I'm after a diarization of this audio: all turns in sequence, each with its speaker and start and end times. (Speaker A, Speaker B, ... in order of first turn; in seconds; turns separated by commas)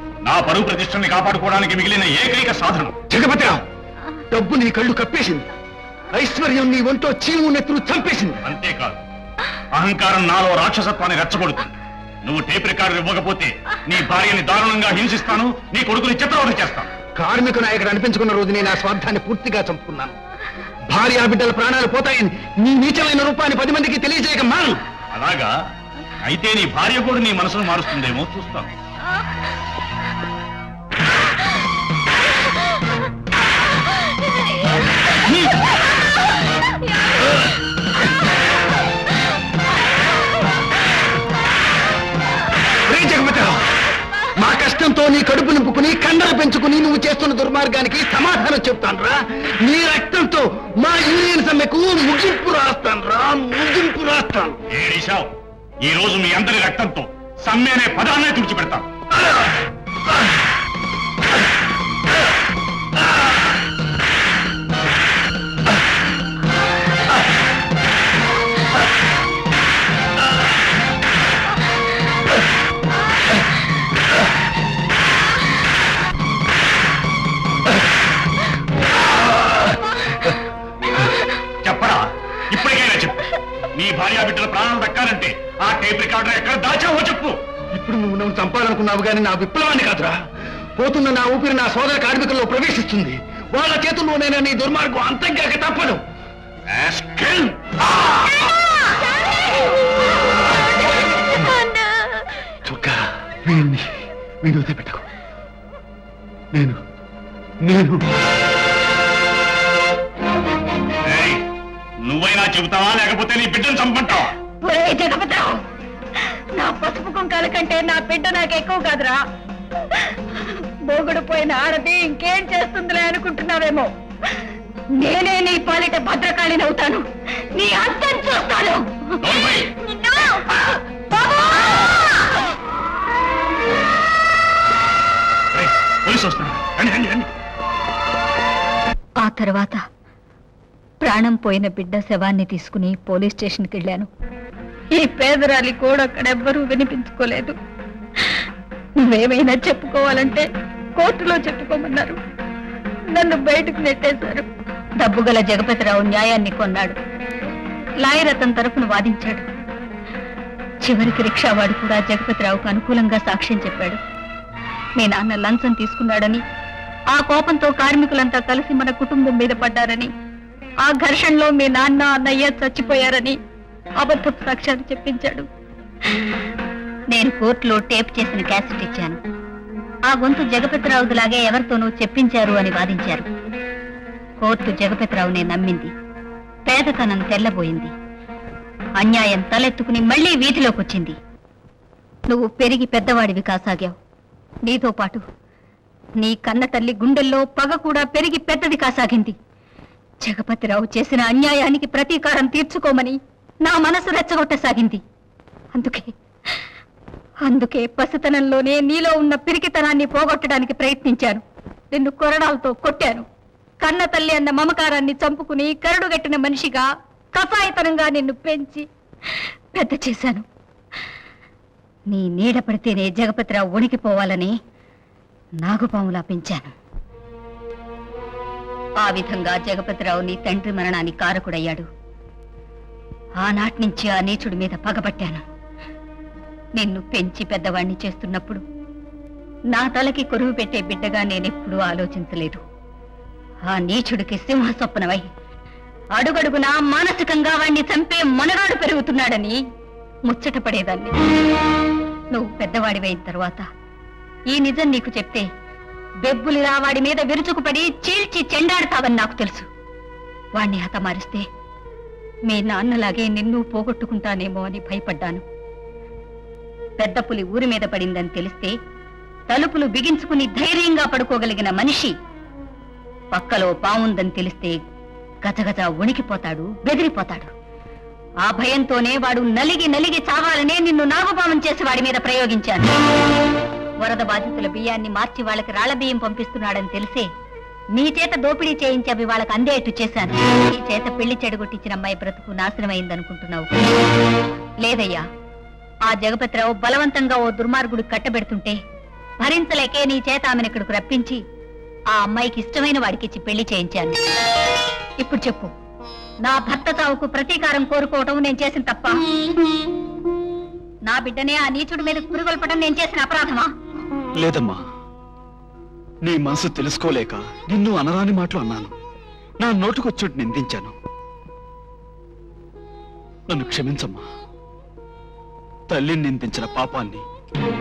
Speaker A: 0.2-2.9, Speaker B: 3.1-3.6, Speaker B: 4.3-5.5, Speaker B: 6.1-8.4, Speaker A: 8.4-9.0, Speaker A: 9.7-16.9, Speaker B: 17.1-20.1, Speaker B: 20.9-24.8, Speaker A: 25.1-25.5, Speaker A: 26.2-28.7, Speaker B: 42.9-43.6, Speaker B: 44.4-54.6, Speaker A: 54.7-55.3, Speaker A: 55.8-58.9, Speaker A: 81.6-87.4, Speaker B: 87.7-90.2, Speaker B: 90.8-96.0, Speaker A: 96.7-98.4, Speaker B: 102.6-103.9, Speaker B: 104.4-105.0, Speaker B: 107.6-108.0, Speaker A: 111.0-111.4, Speaker A: 112.0-114.3, Speaker C: 114.6-115.6, Speaker C: 116.5-119.2, Speaker C: 119.9-123.9, Speaker C: 124.9-129.1, Speaker A: 129.2-129.7, Speaker C: 129.9-130.4, Speaker C: 131.2-131.7, Speaker A: 135.5-137.3, Speaker C: 139.2-139.8, Speaker C: 141.0-144.1, Speaker C: 144.9-147.6, Speaker C: 149.0-152.2, Speaker C: 153.1-154.4, Speaker C: 155.0-157.0, Speaker C: 158.0-159.4, Speaker C: 160.8-164.0, Speaker C: 165.0-166.4, Speaker C: 167.1-170.1, Speaker C: 170.8-173.4, Speaker C: 174.0-175.5, Speaker C: 177.1-179.2, Speaker C: 180.1-183.3, Speaker C: 184.4-185.9, Speaker C: 186.7-187.9, Speaker C: 189.0-191.2, Speaker C: 192.3-193.9, Speaker C: 194.6-195.2, Speaker C: 196.2-199.3, Speaker C: 200.2-205.0, Speaker C: 205.7-206.1, Speaker C: 207.4-213.2, Speaker C: 213.8-218.8, Speaker C: 219.7-220.4, Speaker C: 222.1-224.5, Speaker C: 225.6-226.7, Speaker C: 229.0-231.8, Speaker C: 233.4-235.4, Speaker C: 236.8-238.6, Speaker C: 239.7-242.6, Speaker C: 243.7-245.3, Speaker C: 246.1-249.6, Speaker C: 250.3-251.1, Speaker C: 252.3-253.6, Speaker C: 254.5-255.4, Speaker C: 256.2-259.7, Speaker C: 260.6-261.4, Speaker C: 262.5-265.4, Speaker C: 267.0-268.7, Speaker C: 269.5-272.1, Speaker C: 273.3-274.8, Speaker C: 275.4-277.5, Speaker C: 278.4-282.9, Speaker C: 284.0-287.3, Speaker C: 287.9-293.8, Speaker C: 294.8-295.2, Speaker C: 296.1-298.8, Speaker C: 299.4-301.4, Speaker C: 302.1-304.2, Speaker C: 305.2-305.7, Speaker C: 306.4-309.2, Speaker C: 311.1-313.7, Speaker D: 314.3-314.8, Speaker D: 316.2-318.9, Speaker D: 319.6-320.9, Speaker D: 323.5-324.2, Speaker D: 325.9-327.2